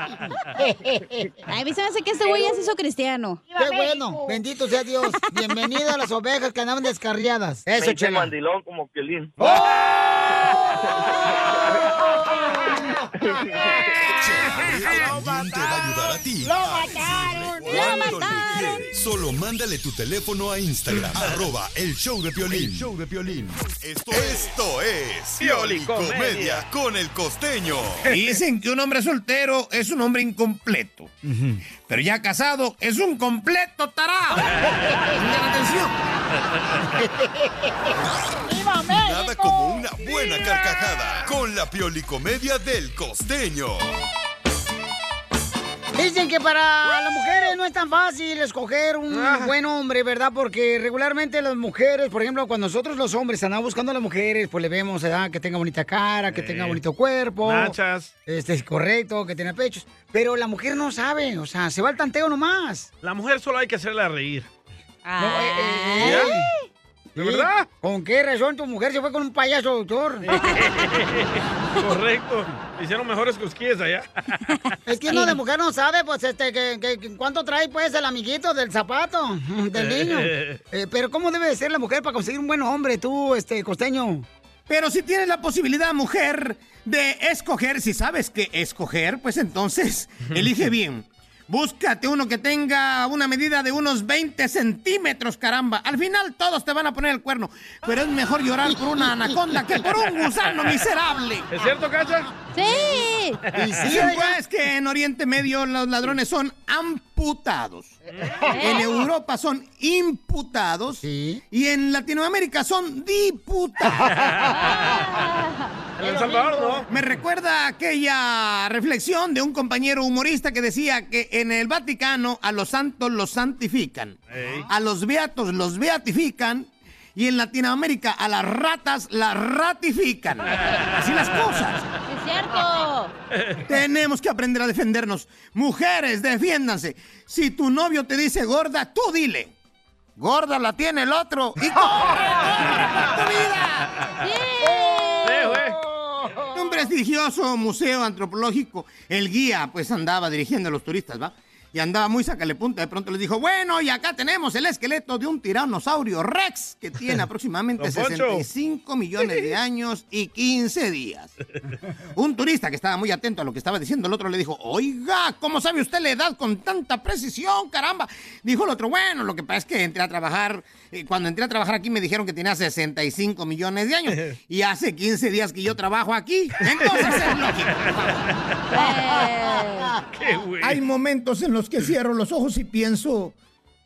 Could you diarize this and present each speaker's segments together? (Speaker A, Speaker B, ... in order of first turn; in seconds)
Speaker A: 0.5-1.3, 3.5-8.3, 9.4-9.8, 12.5-12.8, 16.4-18.0, 31.2-31.6, 37.0-37.7, 38.5-39.5, 45.9-57.7, 58.3-62.9, 65.2-66.5, 67.2-70.3, 74.9-84.3, 103.5-104.3, 108.2-108.5, 111.0-111.4, 116.0-116.8, 124.4-124.7, 142.7-143.3, 144.6-146.6
Speaker B: 1.5-3.4, 17.6-18.8, 65.0-66.6, 75.1-75.4, 102.5-103.4, 108.5-109.0, 114.7-115.7, 132.1-133.1, 144.2-145.3, 178.7-180.0
Speaker C: 7.7-9.3, 10.8-11.8, 13.2-13.9
Speaker D: 14.1-28.2, 38.9-43.9
Speaker E: 14.7-15.8, 24.1-24.5, 25.4-26.6, 49.1-49.5, 56.3-56.8, 57.4-58.1, 63.0-64.5, 66.0-66.3, 67.2-67.7, 70.3-74.1, 79.8-80.6, 101.5-102.3, 108.1-108.5, 114.1-115.0, 116.0-116.9, 124.3-124.6, 145.2-145.8, 157.8-158.4, 177.8-178.2, 180.1-180.8
Speaker F: 28.1-31.1, 31.9-34.5, 35.1-35.9, 84.7-101.5, 103.8-107.9, 108.6-114.2, 116.9-124.2, 124.7-131.9, 133.7-139.5, 140.2-142.5, 146.5-161.3, 162.2-177.8, 180.6-183.3